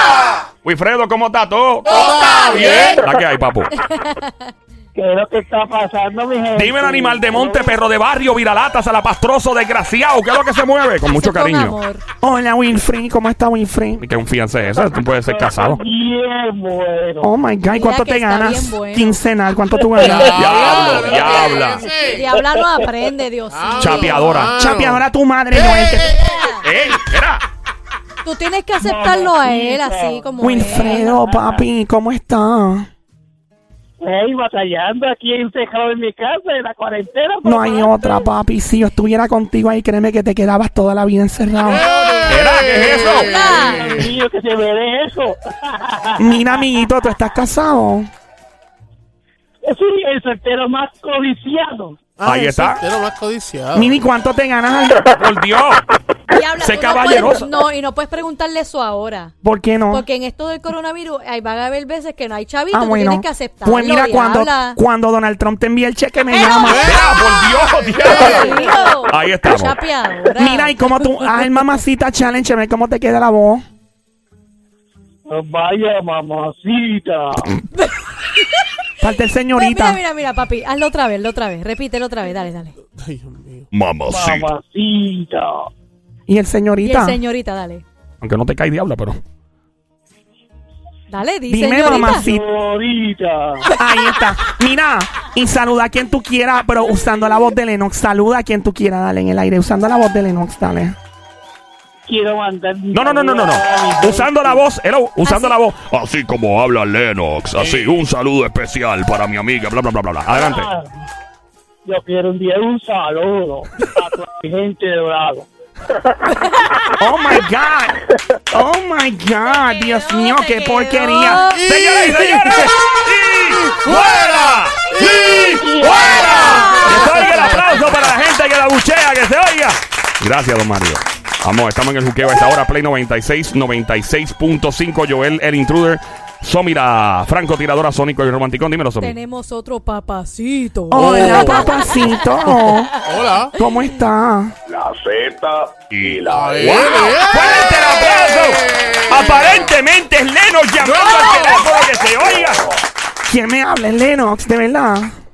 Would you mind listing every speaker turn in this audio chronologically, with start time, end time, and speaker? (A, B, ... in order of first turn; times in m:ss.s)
0:00.6-0:03.7 A
0:01.9-0:03.0 B
0:03.8-0:04.5 C
0:04.9-0:07.2 D
0:06.5-0:11.8 A
0:11.0-0:12.0 C
0:12.2-0:14.0 E
0:14.0-0:15.8 A
0:15.3-0:17.3 D
0:17.2-0:20.5 E
0:17.7-0:19.2 C
0:20.0-0:22.3 B
0:20.2-0:21.9 A
0:22.0-0:24.4 C
0:23.5-0:26.4 B
0:23.8-0:24.6 A
0:24.5-0:26.2 E
0:26.2-0:26.6 C
0:26.6-0:27.4 A
0:28.2-0:31.1 C
0:28.8-0:30.2 D
0:30.4-0:32.9 E
0:31.2-0:31.6 D
0:34.0-0:38.0 D
0:37.4-0:41.9 E
0:41.7-0:42.4 C
0:41.9-0:44.2 B
0:42.3-0:43.4 A
0:43.2-0:44.0 C
0:44.1-0:46.2 D
0:46.2-0:48.1 E
0:49.6-0:52.0 D
0:52.2-0:54.0 B
0:52.2-0:52.8 A
0:53.7-0:55.0 E
0:55.1-0:55.8 A
0:56.3-0:59.3 C
0:56.5-0:57.5 A
0:59.4-1:00.0 E
0:59.9-1:04.8 C
1:02.7-1:06.9 E
1:06.3-1:07.0 C
1:06.6-1:07.0 B
1:06.9-1:09.8 A
1:08.0-1:11.3 C
1:08.0-1:08.5 B
1:10.3-1:13.6 E
1:15.2-1:17.5 D
1:19.0-1:20.0 E
1:19.5-1:22.7 C
1:22.9-1:23.7 B
1:23.7-1:24.5 A
1:24.1-1:25.6 D
1:26.3-1:27.2 E
1:26.8-1:27.8 C
1:28.2-1:29.2 A
1:31.1-1:32.3 C
1:31.5-1:32.4 E
1:32.3-1:33.7 D
1:33.8-1:41.0 E
1:42.0-1:44.6 D
1:42.9-1:50.7 A
1:45.2-1:45.6 C
1:47.6-1:48.1 B
1:50.3-1:50.9 D
1:51.8-1:55.5 D
1:57.0-2:01.5 E
1:59.5-2:01.6 C
2:01.4-2:02.8 B
2:01.6-2:19.2 A
2:03.5-2:05.5 B
2:05.6-2:06.1 D
2:06.2-2:07.9 B
2:06.5-2:06.9 C
2:19.0-2:22.8 C
2:20.9-2:22.9 E
2:20.9-2:21.8 B
2:23.0-2:23.6 B
2:23.5-2:24.5 E
2:24.7-2:27.1 F
2:25.9-2:32.6 A
2:26.3-2:29.7 B
2:30.8-2:31.7 B
2:32.2-2:32.8 F
2:33.2-2:35.1 E